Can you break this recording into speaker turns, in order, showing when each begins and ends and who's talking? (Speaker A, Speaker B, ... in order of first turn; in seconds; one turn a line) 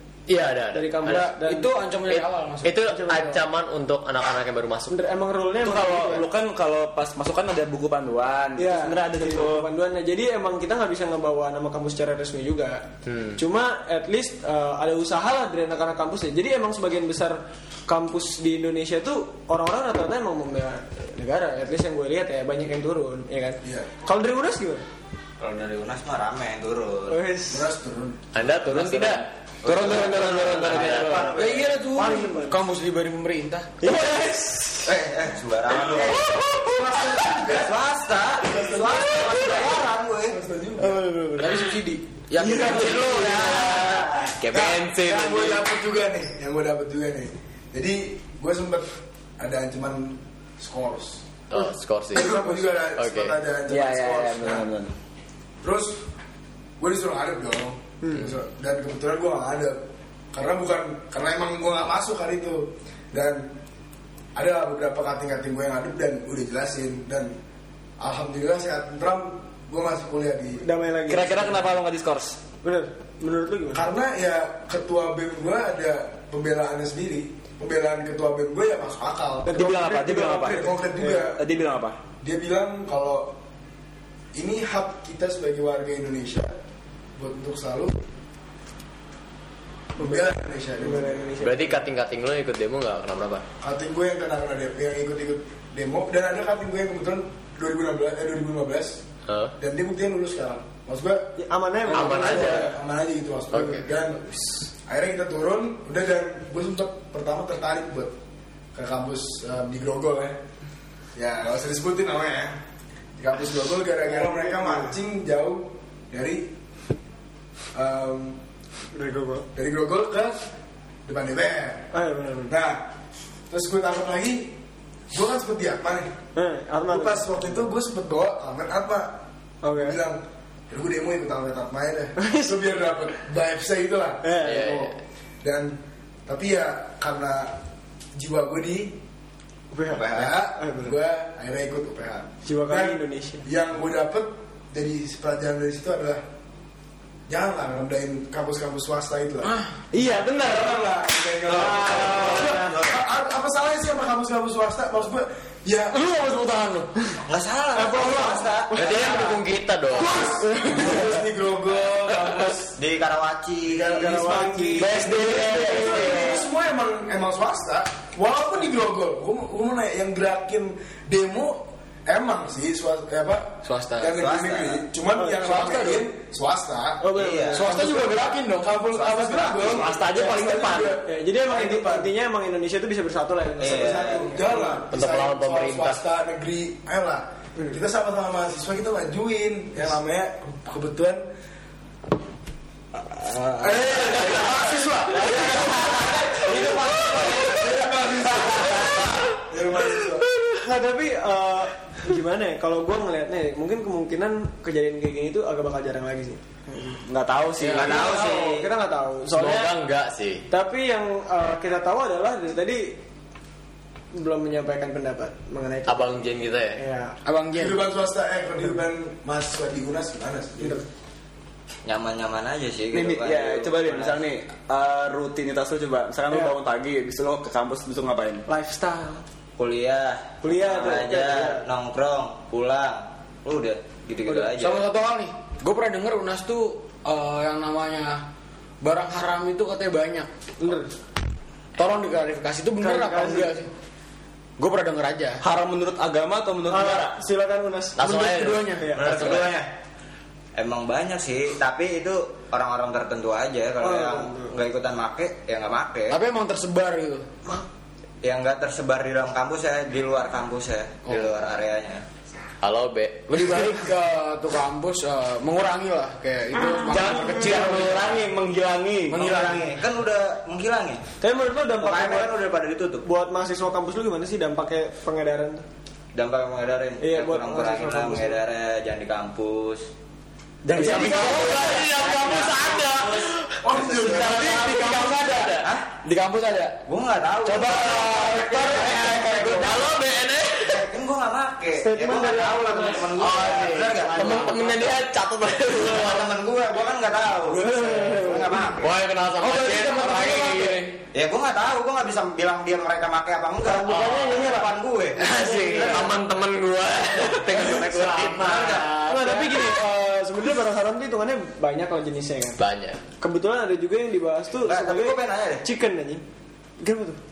Speaker A: 0.3-1.4
Speaker B: 0.7-1.7
Speaker C: 1.1-3.1
Speaker A: 2.1-5.0
Speaker B: 2.9-3.4
Speaker B: 4.9-6.3
Speaker D: 5.6-9.7
Speaker B: 8.6-24.8
Speaker A: 13.1-13.4
Speaker E: 23.6-23.9
Speaker F: 25.4-27.2
Speaker B: 27.1-27.7
Speaker E: 27.5-28.4
Speaker A: 28.3-31.3
Speaker F: 29.6-31.7
Speaker D: 29.7-31.3
Speaker C: 30.0-33.7
Speaker B: 31.9-32.6
Speaker B: 33.8-34.9
Speaker F: 34.9-36.3
Speaker E: 35.9-37.8
Speaker F: 37.4-40.4
Speaker E: 38.4-41.1
Speaker B: 40.8-41.7
Speaker C: 41.4-43.8
Speaker B: 42.4-43.5
Speaker D: 42.5-44.1
Speaker F: 42.5-44.3
Speaker A: 44.4-45.6
Speaker E: 44.5-51.2
Speaker A: 51.5-53.3
Speaker E: 52.1-54.7
Speaker B: 52.2-52.5
Speaker D: 53.7-54.9
Speaker E: 55.6-56.0
Speaker E: 56.8-59.8
Speaker E: 60.3-63.5
Speaker E: 64.3-67.3
Speaker E: 68.0-70.6
Speaker B: 70.6-71.7
Speaker D: 71.1-72.4
Speaker B: 72.6-73.9
Speaker E: 73.7-79.6
Speaker B: 79.5-81.3
Speaker D: 79.5-82.0
Speaker E: 80.5-81.4
Speaker E: 82.2-83.4
Speaker E: 84.3-86.5
Speaker E: 87.2-88.0
Speaker E: 90.0-91.3
Speaker B: 90.0-91.8
Speaker A: 91.4-93.4
Speaker E: 93.6-99.0
Speaker A: 99.3-99.5
Speaker E: 99.6-101.3
Speaker B: 101.4-102.8
Speaker E: 101.9-104.2
Speaker A: 101.9-102.7
Speaker B: 103.6-104.4
Speaker E: 104.8-108.1
Speaker E: 108.7-110.4
Speaker E: 111.1-112.6
Speaker E: 113.2-116.5
Speaker B: 114.2-114.9
Speaker E: 117.7-118.4
Speaker B: 118.9-119.5
Speaker E: 119.5-120.4
Speaker E: 121.0-121.9
Speaker B: 121.9-122.5
Speaker E: 122.5-122.9
Speaker E: 123.5-124.6
Speaker E: 125.1-126.1
Speaker B: 126.3-127.4
Speaker E: 126.9-129.2
Speaker B: 129.6-130.0
Speaker E: 129.7-137.6
Speaker B: 132.2-132.6
Speaker B: 134.2-134.8
Speaker A: 134.4-134.9
Speaker E: 138.2-139.0
Speaker B: 139.7-141.0
Speaker F: 139.9-140.3
Speaker E: 139.9-146.2
Speaker B: 142.4-143.5
Speaker E: 147.3-156.0
Speaker C: 149.4-149.7
Speaker B: 149.9-150.8
Speaker B: 151.5-152.8
Speaker F: 151.7-153.0
Speaker C: 155.9-156.9
Speaker F: 157.3-159.4
Speaker B: 157.7-159.4
Speaker A: 158.7-160.2
Speaker E: 159.9-162.8
Speaker B: 160.4-161.2
Speaker F: 162.8-164.5
Speaker E: 163.7-182.1
Speaker B: 163.8-166.3
Speaker C: 164.8-166.3
Speaker D: 164.8-165.7
Speaker C: 173.6-174.2
Speaker F: 174.1-174.8
Speaker B: 175.2-175.4
Speaker C: 175.4-176.1
Speaker B: 177.0-178.2
Speaker F: 177.1-177.7
Speaker C: 177.5-179.8
Speaker B: 181.0-184.7
Speaker F: 183.6-184.3
Speaker E: 183.6-191.2
Speaker A: 184.9-186.0
Speaker E: 193.2-200.3
Speaker C: 194.0-197.7
Speaker B: 195.1-197.5
Speaker C: 198.4-198.8
Speaker B: 200.6-207.0
Speaker D: 207.0-208.3
Speaker C: 207.6-208.0
Speaker F: 207.7-208.7
Speaker B: 207.8-209.7
Speaker A: 209.3-210.4
Speaker B: 210.5-213.0
Speaker B: 214.1-217.2
Speaker A: 215.9-216.8
Speaker C: 217.2-217.8
Speaker E: 217.5-220.8
Speaker F: 221.8-224.2
Speaker D: 222.9-228.4
Speaker B: 226.3-226.5
Speaker B: 228.5-229.2
Speaker F: 229.6-234.8
Speaker B: 230.4-231.6
Speaker C: 234.3-238.2
Speaker C: 238.8-240.3
Speaker B: 240.6-240.9
Speaker C: 241.8-243.7
Speaker B: 242.8-243.6
Speaker C: 244.6-245.4
Speaker D: 245.4-247.1
Speaker B: 246.7-249.4
Speaker A: 248.0-249.5
Speaker C: 248.0-248.9
Speaker F: 248.9-249.7
Speaker F: 250.6-256.2
Speaker B: 253.8-254.5
Speaker C: 256.1-257.3
Speaker F: 258.2-262.0
Speaker A: 262.6-263.8
Speaker C: 263.3-268.2
Speaker D: 266.9-269.4
Speaker C: 269.1-269.8
Speaker F: 269.1-271.1
Speaker B: 271.2-272.4
Speaker F: 271.8-273.0
Speaker B: 273.0-275.6
Speaker F: 276.1-279.9
Speaker B: 277.0-278.4
Speaker C: 280.6-282.9
Speaker D: 280.7-281.4
Speaker A: 280.7-285.7
Speaker F: 280.8-284.8
Speaker B: 280.9-281.3
Speaker E: 283.6-284.6
Speaker C: 283.7-286.8
Speaker F: 285.6-285.8
Speaker F: 286.9-289.9
Speaker C: 287.4-289.9
Speaker A: 289.2-290.8
Speaker F: 290.6-295.0
Speaker B: 291.7-293.4
Speaker A: 293.1-296.4
Speaker B: 294.2-294.5
Speaker F: 295.7-298.9
Speaker B: 297.5-298.7
Speaker A: 298.8-300.8
Speaker C: 299.4-301.0
Speaker F: 301.1-306.1
Speaker B: 303.6-306.1
Speaker A: 303.8-304.6
Speaker A: 305.2-309.7
Speaker F: 307.4-308.9
Speaker B: 309.0-312.6
Speaker A: 312.6-313.0
Speaker B: 313.2-316.2
Speaker F: 314.6-315.6
Speaker B: 316.8-317.2